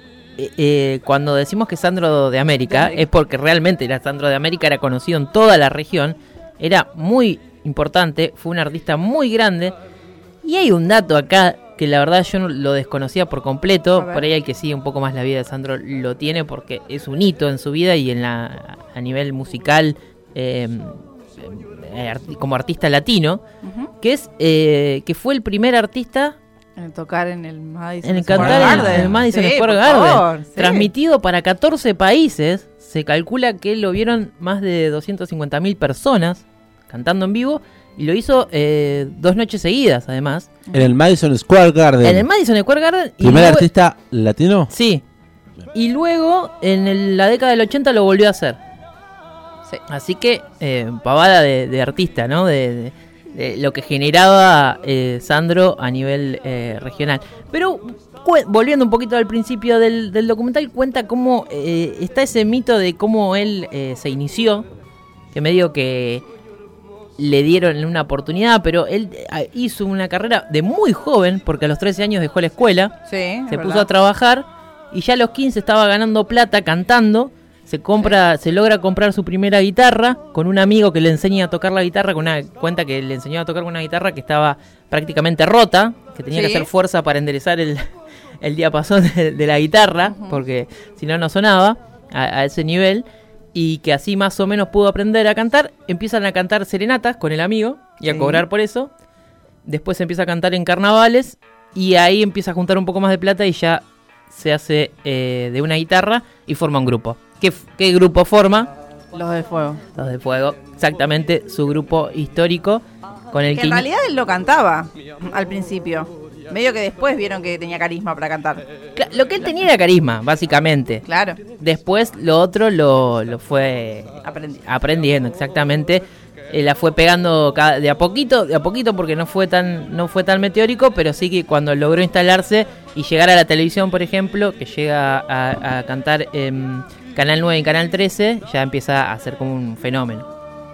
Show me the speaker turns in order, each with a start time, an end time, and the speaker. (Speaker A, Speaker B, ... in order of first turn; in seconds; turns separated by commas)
Speaker A: 0.4-9.8, Speaker B: 2.7-3.0, Speaker A: 10.4-23.4, Speaker B: 14.0-14.3, Speaker B: 23.6-23.9, Speaker A: 24.0-26.4, Speaker B: 26.8-30.9, Speaker A: 28.0-40.5, Speaker C: 28.3-29.2, Speaker C: 40.7-42.3, Speaker A: 42.0-43.7, Speaker C: 43.2-44.7, Speaker A: 44.7-45.0, Speaker A: 45.7-48.6, Speaker A: 49.9-64.7, Speaker A: 65.3-66.2, Speaker A: 67.2-73.0, Speaker B: 73.1-73.9, Speaker A: 73.5-87.9, Speaker B: 86.3-86.7, Speaker A: 88.4-98.9, Speaker B: 90.0-90.4, Speaker B: 98.1-98.4, Speaker A: 99.7-108.7, Speaker B: 109.1-109.8, Speaker A: 110.0-113.9, Speaker B: 113.5-118.6, Speaker A: 119.0-121.1, Speaker B: 121.1-121.4, Speaker A: 121.6-140.3, Speaker B: 124.2-124.6